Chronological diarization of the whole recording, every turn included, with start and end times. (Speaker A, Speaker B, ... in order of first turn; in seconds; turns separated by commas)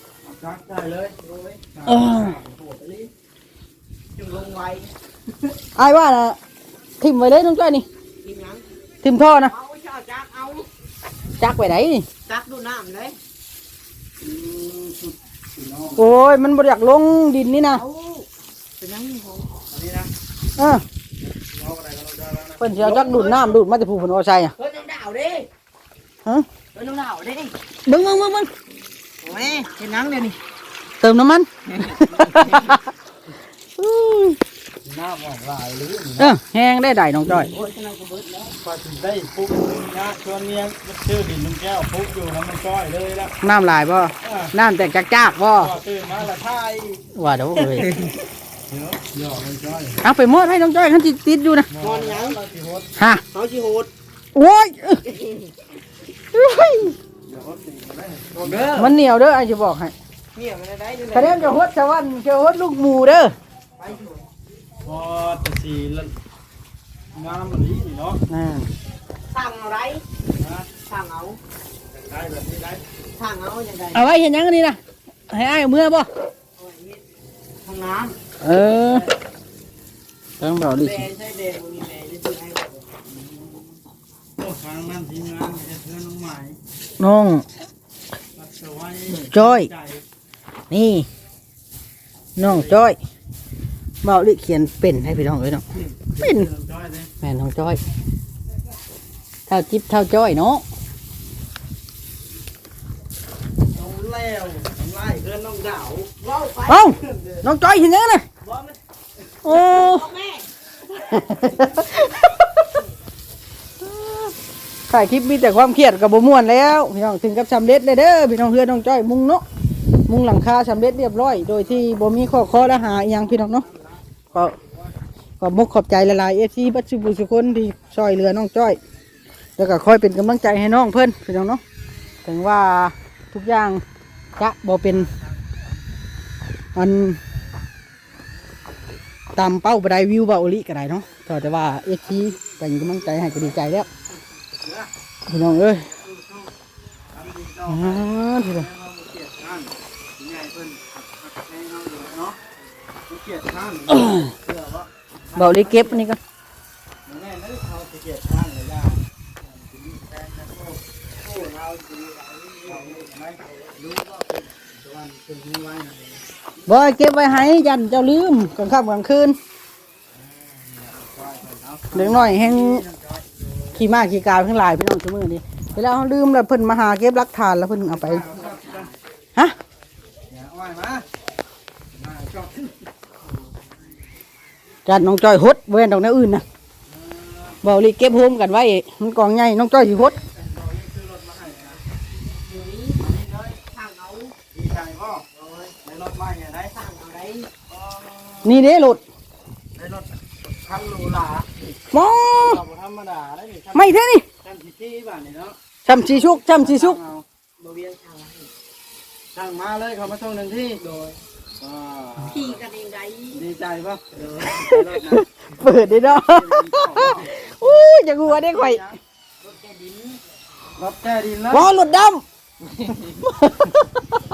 Speaker A: 0.2-1.1, Speaker B: 1.2-1.6, Speaker A: 1.7-3.1, Speaker C: 1.9-2.4, Speaker B: 4.2-4.9, Speaker C: 5.8-6.4, Speaker C: 7.0-7.9, Speaker B: 8.2-8.6, Speaker C: 9.0-9.5, Speaker B: 9.5-10.7, Speaker C: 11.4-12.1, Speaker B: 12.2-13.2, Speaker A: 14.2-16.2, Speaker C: 16.0-17.8, Speaker B: 17.7-18.3, Speaker B: 18.8-19.5, Speaker A: 19.7-20.1, Speaker C: 20.6-20.8, Speaker A: 21.2-23.6, Speaker C: 22.6-24.5, Speaker B: 24.6-25.5, Speaker B: 26.7-27.6, Speaker C: 27.9-28.5, Speaker B: 29.2-30.4, Speaker C: 31.0-32.8, Speaker C: 33.8-34.4, Speaker A: 34.8-36.4, Speaker C: 36.2-37.5, Speaker B: 37.3-38.5, Speaker A: 38.5-43.4, Speaker C: 43.4-45.7, Speaker A: 44.2-44.5, Speaker A: 45.5-47.0, Speaker C: 47.1-48.0, Speaker A: 47.6-48.0, Speaker A: 48.7-50.0, Speaker C: 50.0-51.7, Speaker A: 51.7-52.9, Speaker B: 51.8-52.4, Speaker C: 53.0-53.2, Speaker B: 53.3-53.9, Speaker C: 54.3-55.2, Speaker C: 56.3-57.0, Speaker A: 57.2-58.8, Speaker B: 58.4-58.9, Speaker C: 58.7-59.9, Speaker B: 60.3-61.6, Speaker C: 61.1-63.3, Speaker B: 63.8-64.2, Speaker A: 64.8-66.1, Speaker A: 67.1-68.2, Speaker C: 68.3-68.7, Speaker B: 69.3-70.0, Speaker A: 70.3-70.7, Speaker B: 70.8-71.4, Speaker A: 71.9-72.8, Speaker B: 73.1-74.1, Speaker C: 73.9-74.8, Speaker C: 75.3-76.1, Speaker B: 76.6-77.0, Speaker B: 77.6-78.2, Speaker C: 78.4-79.1, Speaker C: 80.4-81.1, Speaker B: 80.7-82.8, Speaker A: 83.1-83.6, Speaker A: 84.4-86.6, Speaker C: 87.0-87.5, Speaker A: 88.3-90.0, Speaker C: 89.1-89.7, Speaker C: 90.7-91.1, Speaker C: 92.3-93.0, Speaker A: 92.4-92.8, Speaker C: 94.0-95.6, Speaker A: 95.8-97.1, Speaker C: 96.2-96.5, Speaker C: 97.2-97.8, Speaker C: 99.5-100.6, Speaker A: 103.7-106.1, Speaker B: 106.2-107.3, Speaker C: 106.7-108.2, Speaker B: 108.4-108.8, Speaker C: 109.4-110.1, Speaker B: 109.4-110.5, Speaker C: 111.0-112.3, Speaker C: 113.8-114.3, Speaker C: 114.9-119.4, Speaker C: 120.1-123.7, Speaker A: 124.3-124.7, Speaker C: 125.4-128.8, Speaker C: 129.6-131.6, Speaker C: 132.2-133.8, Speaker C: 134.4-135.1, Speaker C: 136.7-137.2, Speaker C: 139.3-143.9, Speaker A: 144.6-144.9, Speaker C: 145.3-145.8, Speaker A: 145.7-146.5, Speaker A: 147.1-152.4, Speaker C: 147.7-148.7, Speaker A: 153.1-155.8, Speaker C: 153.9-154.3, Speaker C: 155.3-156.2, Speaker A: 157.1-160.8, Speaker B: 161.2-162.9, Speaker A: 162.6-166.2, Speaker C: 166.7-169.4, Speaker A: 170.1-173.8, Speaker C: 171.9-172.8, Speaker C: 173.7-178.2, Speaker A: 177.9-178.9, Speaker B: 178.6-178.8, Speaker A: 180.3-181.1, Speaker A: 181.9-182.7, Speaker C: 184.8-186.4, Speaker A: 186.8-187.6, Speaker C: 187.6-190.2, Speaker A: 190.1-191.8, Speaker B: 192.4-194.3, Speaker A: 193.0-193.6, Speaker A: 194.5-195.2, Speaker B: 195.3-195.7, Speaker A: 195.8-196.7, Speaker B: 196.7-197.5, Speaker A: 197.7-198.7, Speaker C: 198.4-199.0, Speaker A: 199.7-201.5, Speaker C: 201.9-202.6, Speaker A: 202.4-207.2, Speaker C: 203.7-204.2, Speaker C: 205.8-207.0, Speaker B: 207.6-208.5, Speaker A: 209.3-210.8, Speaker B: 210.8-211.2, Speaker A: 211.6-212.6, Speaker B: 212.2-213.4, Speaker A: 213.3-219.0, Speaker B: 214.1-214.6, Speaker C: 214.5-218.8, Speaker B: 219.4-220.2, Speaker A: 220.7-221.8, Speaker C: 221.5-222.2, Speaker C: 223.4-223.8